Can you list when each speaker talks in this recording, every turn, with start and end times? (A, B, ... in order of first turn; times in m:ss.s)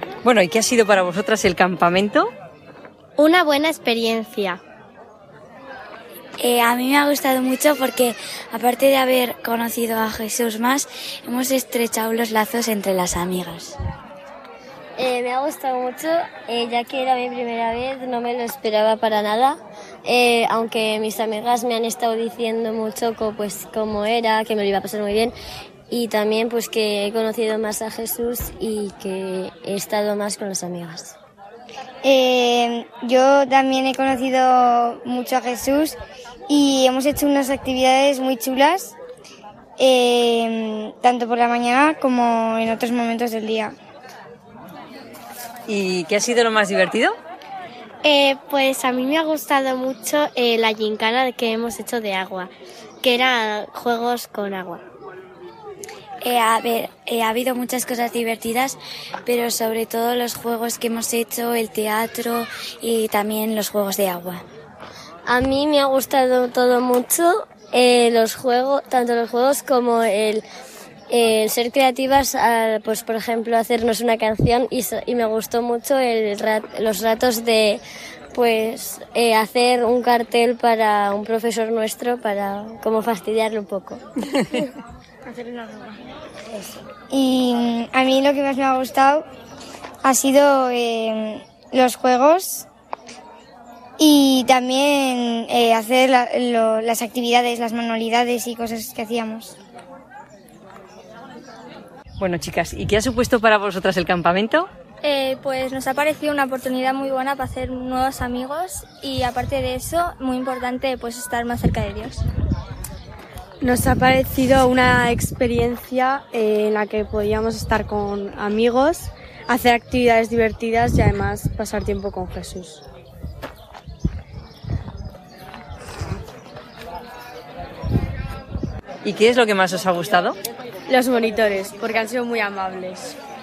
0:00.2-0:02.3 A
0:03.2-0:04.6 B
0:06.4-0:13.8 C
0:15.0-0:25.3 B
0:25.9-0:31.2 B
0:32.0-0:36.0 D
0:36.5-0:39.0 D
0:39.8-0:43.7 D
0:45.7-0:47.2 A
0:48.0-0:52.5 B
0:53.0-0:54.8 B
0:56.2-1:04.4 C
1:05.3-1:10.4 B
1:11.1-1:17.8 B
1:18.3-1:24.0 B
1:27.1-1:29.2 D
1:30.0-1:32.7 D
1:34.0-1:39.6 D
1:42.2-1:44.7 A
1:45.0-1:52.2 E
1:53.6-2:02.8 F
2:09.0-2:10.4 A
2:10.9-2:13.2 F